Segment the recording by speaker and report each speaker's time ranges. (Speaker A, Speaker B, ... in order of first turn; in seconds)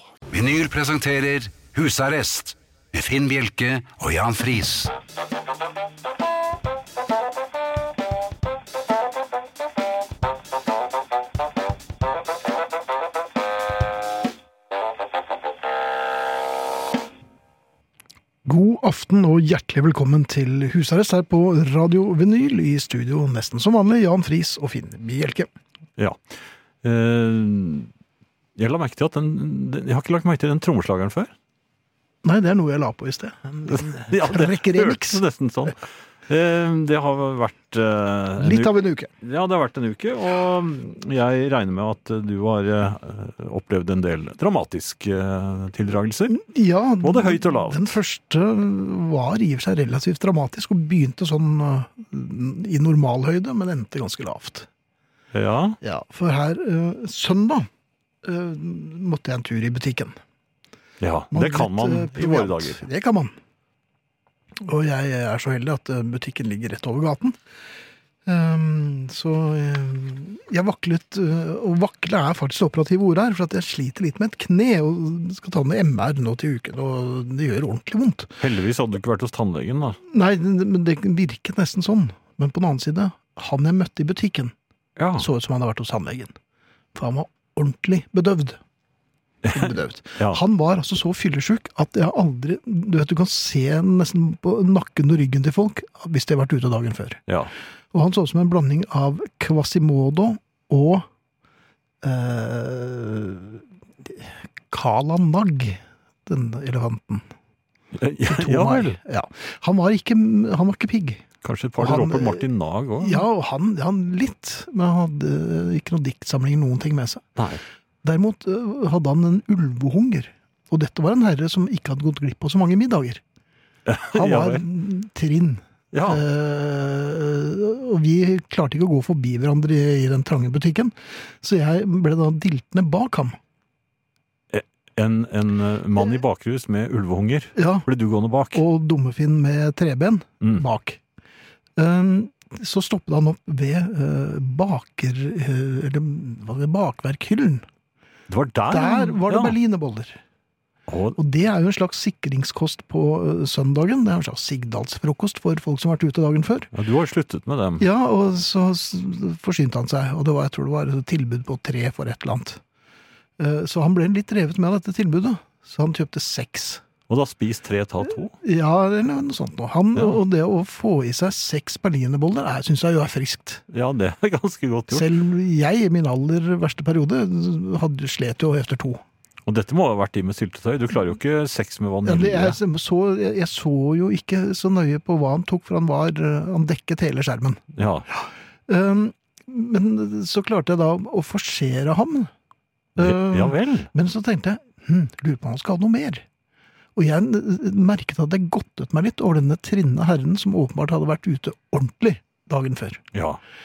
Speaker A: 0.3-4.9
Speaker B: 18.4-25.5, 32.2-35.2, 38.4-39.1, 46.3-54.7, 55.8-57.7, 58.2-60.2, 61.3-63.3, 64.6-67.4, 68.2-78.4, 80.1-84.5, 85.2-86.4, 87.0-88.6, 89.5-97.2, 97.9-101.1, 102.0-107.3, 108.3-111.2, 111.8-112.5, 113.0-117.3, 118.0-123.2, 124.1-133.4, 137.6-137.9, 138.5-141.0, 141.8-147.7, 148.7-150.2, 151.2-156.7, 157.8-162.6, 163.4-166.8, 168.4-173.6, 174.9-179.0, 182.1-192.3, 193.0-196.2, 197.0-203.0
Speaker C: 26.8-27.9, 28.6-31.3, 33.7-46.4, 47.0-47.9, 55.3-55.8, 61.0-62.8, 78.4-80.0, 85.0-85.3, 89.4-90.4, 108.0-109.0, 111.4-113.3, 117.4-117.6, 123.9-124.6, 125.9-126.2, 134.5-138.6, 148.3-149.6, 150.9-151.2, 156.8-157.8, 167.1-168.3, 173.7-175.1, 179.5-182.6, 187.8-188.1, 193.0-193.9, 203.1-203.4